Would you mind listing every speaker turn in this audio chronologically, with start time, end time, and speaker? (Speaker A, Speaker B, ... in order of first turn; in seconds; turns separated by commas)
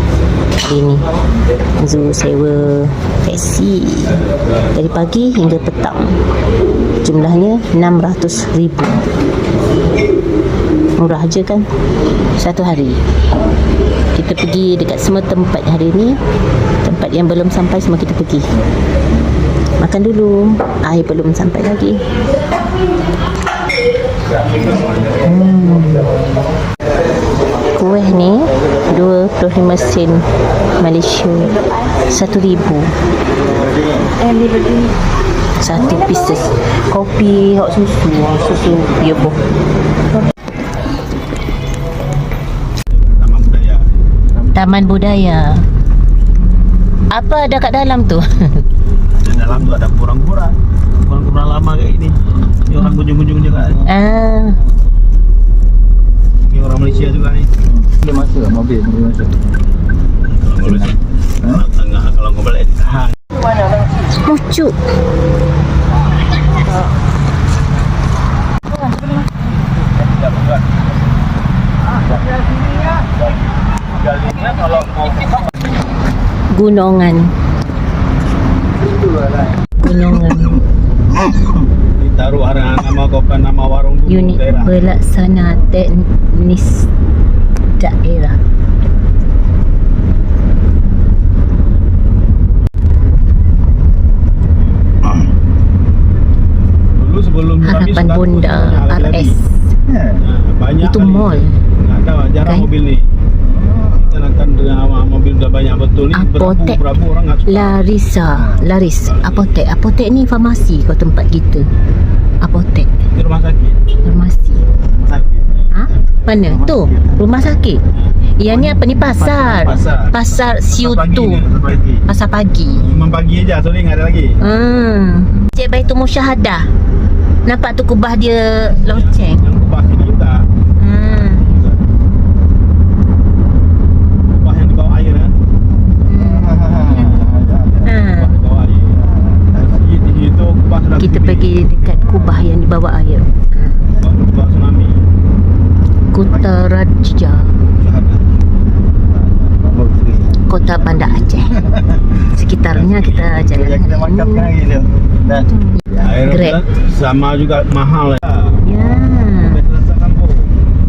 Speaker A: 0.6-1.1, Speaker A: 1.8-6.2, Speaker A: 7.0-9.1, Speaker A: 11.0-11.7, Speaker A: 12.4-13.0, Speaker A: 14.1-16.2, Speaker A: 16.8-18.5, Speaker A: 19.8-22.0, Speaker A: 25.1-26.1, Speaker A: 27.7-30.3, Speaker A: 30.8-32.9, Speaker A: 35.6-39.4, Speaker B: 42.9-44.0, Speaker A: 44.5-45.6, Speaker A: 47.1-48.7, Speaker B: 49.1-53.9, Speaker A: 53.9-54.6, Speaker B: 56.5-57.5, Speaker C: 57.9-59.4, Speaker B: 60.4-63.1, Speaker A: 64.2-64.8, Speaker B: 70.0-70.9, Speaker B: 73.7-75.6, Speaker A: 76.5-77.3, Speaker C: 79.0-79.3, Speaker A: 79.8-80.7, Speaker B: 81.9-84.8, Speaker A: 84.1-86.9, Speaker A: 87.8-88.4, Speaker B: 96.9-99.4, Speaker A: 97.6-99.7, Speaker C: 99.9-100.2, Speaker B: 100.2-103.1, Speaker A: 100.8-101.6, Speaker C: 103.5-104.0, Speaker B: 103.8-107.9, Speaker A: 106.1-106.8, Speaker A: 107.5-111.7, Speaker C: 108.4-108.7, Speaker B: 109.1-109.5, Speaker A: 112.4-112.9, Speaker B: 113.0-113.9, Speaker A: 114.0-114.7, Speaker B: 115.0-115.5, Speaker A: 115.7-117.8, Speaker C: 116.5-117.1, Speaker A: 118.4-121.5, Speaker B: 118.5-122.0, Speaker A: 122.1-122.9, Speaker B: 122.8-124.5, Speaker A: 124.4-126.7, Speaker A: 127.4-129.5, Speaker B: 128.8-131.9, Speaker A: 130.8-131.5, Speaker B: 134.3-135.4, Speaker A: 136.0-137.3, Speaker C: 136.2-137.9, Speaker B: 136.8-137.3, Speaker A: 137.8-138.4, Speaker B: 138.0-141.6, Speaker C: 139.1-139.6, Speaker A: 141.0-143.9, Speaker B: 144.0-145.1, Speaker A: 146.1-147.6, Speaker B: 147.7-148.4, Speaker C: 148.9-150.4, Speaker A: 150.4-151.6, Speaker C: 151.5-151.9, Speaker A: 152.2-154.6, Speaker B: 152.7-153.5, Speaker C: 153.6-155.5, Speaker A: 155.7-156.6, Speaker B: 156.0-160.6, Speaker A: 158.6-159.6